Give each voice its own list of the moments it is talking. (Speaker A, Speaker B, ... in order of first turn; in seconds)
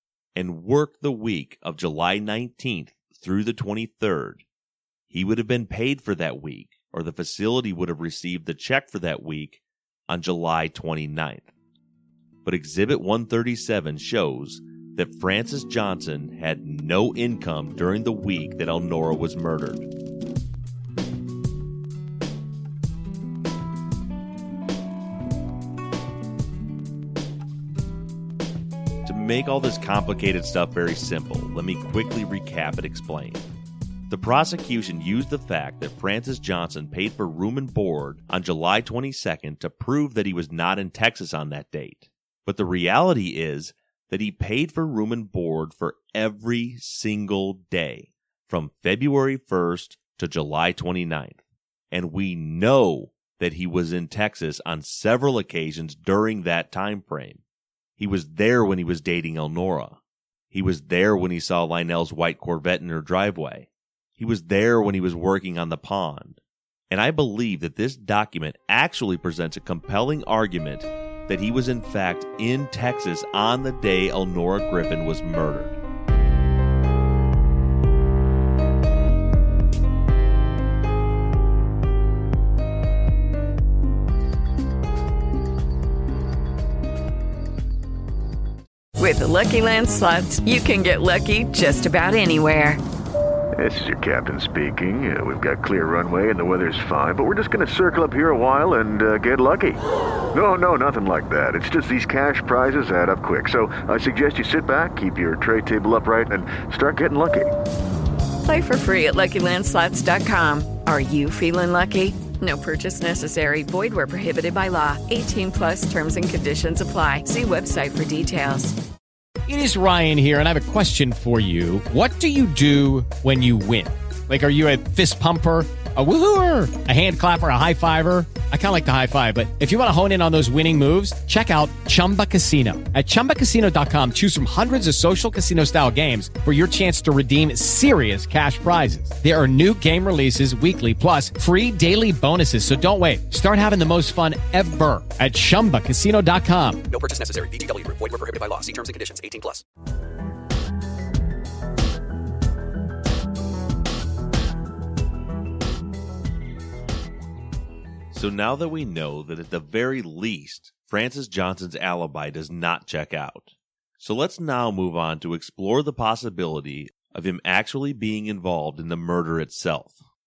Speaker A: 0.3-4.4, 5.1-11.5, 12.4-19.9, 29.0-33.5, 34.1-57.4, 58.0-60.0, 60.5-66.4, 66.9-75.8, 158.1-170.0
Speaker B: 89.0-92.8, 108.4-118.8
Speaker C: 93.5-99.8, 100.3-107.5
Speaker D: 119.5-146.8
Speaker E: 146.9-149.6